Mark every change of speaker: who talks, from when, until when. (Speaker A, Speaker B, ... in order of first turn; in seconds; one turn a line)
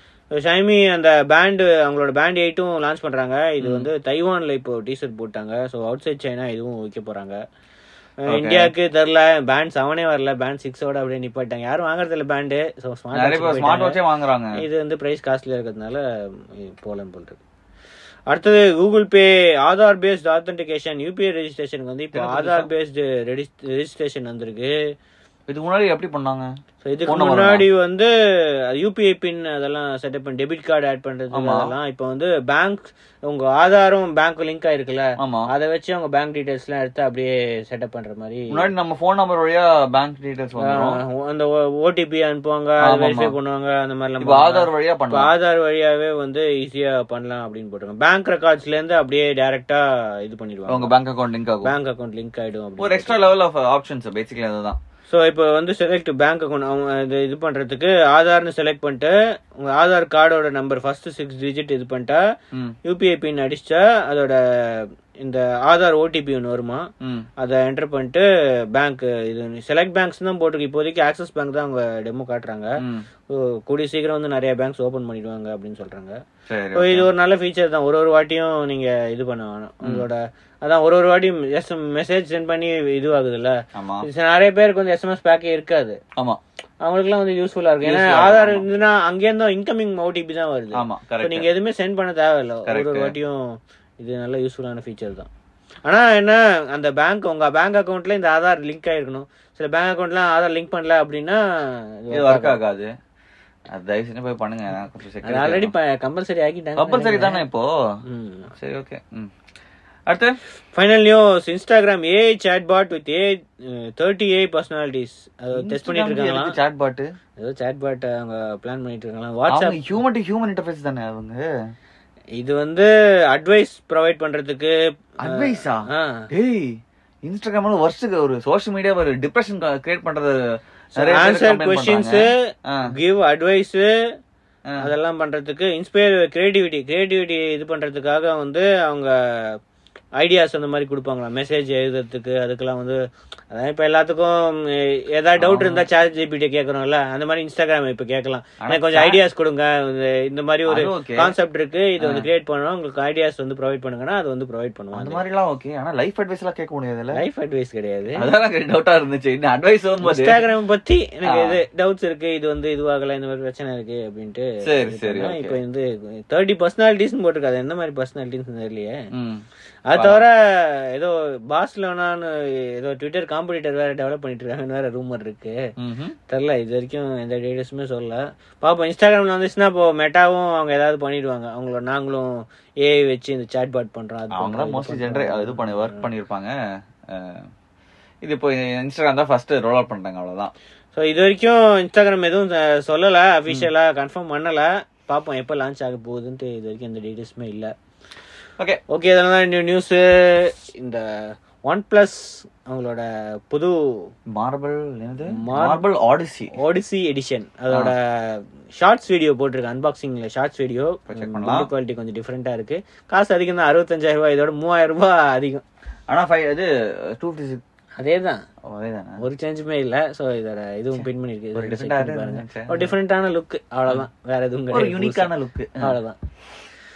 Speaker A: 0.3-7.4
Speaker B: 3.6-3.9
Speaker A: 8.2-14.0
Speaker B: 8.3-8.7
Speaker B: 13.1-14.6
Speaker A: 14.6-17.4
Speaker A: 18.3-24.8
Speaker B: 22.1-22.7
Speaker B: 25.5-26.5
Speaker A: 26.8-28.1
Speaker B: 27.1-27.6
Speaker A: 28.7-38.7
Speaker B: 31.3-31.7
Speaker B: 35.2-35.5
Speaker B: 38.5-41.0
Speaker A: 40.6-50.9
Speaker B: 42.8-43.3
Speaker B: 44.2-45.3
Speaker B: 50.7-51.7
Speaker A: 51.6-53.2
Speaker B: 52.8-54.8
Speaker A: 55.1-62.2
Speaker A: 62.8-66.9
Speaker B: 67.0-67.3
Speaker A: 67.4-72.8
Speaker B: 72.8-73.1
Speaker A: 73.3-76.2
Speaker B: 76.5-77.1
Speaker A: 76.7-86.0
Speaker B: 83.7-84.1
Speaker A: 86.8-93.4
Speaker B: 87.8-88.7
Speaker B: 90.7-91.5
Speaker B: 92.7-93.1
Speaker A: 94.0-95.3
Speaker A: 95.8-102.6
Speaker B: 102.1-102.9
Speaker B: 103.7-105.7
Speaker A: 105.2-107.4
Speaker B: 106.8-107.7
Speaker A: 108.0-108.5
Speaker B: 108.6-109.3
Speaker B: 110.1-110.4
Speaker A: 110.7-116.5
Speaker B: 115.5-117.1
Speaker A: 117.4-120.0
Speaker B: 119.5-121.4
Speaker A: 122.4-126.3
Speaker B: 125.2-130.4
Speaker A: 131.0-132.3
Speaker B: 131.0-132.9
Speaker A: 132.9-133.9
Speaker A: 134.8-139.6
Speaker A: 140.2-155.2
Speaker B: 145.4-145.8
Speaker B: 148.6-149.2
Speaker B: 150.7-151.3
Speaker B: 152.0-152.3
Speaker B: 154.9-157.2
Speaker A: 157.1-158.2
Speaker B: 158.2-160.4
Speaker A: 160.0-168.9
Speaker B: 161.3-161.6
Speaker B: 164.6-165.6
Speaker B: 169.1-170.2
Speaker A: 169.9-175.6
Speaker B: 175.8-176.1
Speaker A: 176.3-186.1
Speaker B: 184.3-186.5
Speaker B: 187.1-187.4
Speaker B: 188.2-190.5
Speaker A: 190.9-197.7
Speaker A: 198.9-203.8
Speaker B: 204.3-206.5
Speaker A: 205.3-205.8
Speaker A: 206.5-215.6
Speaker B: 211.1-211.7
Speaker B: 216.1-217.6
Speaker A: 218.0-218.4
Speaker B: 218.7-219.2
Speaker A: 219.2-226.2
Speaker B: 220.9-222.9
Speaker B: 224.7-225.9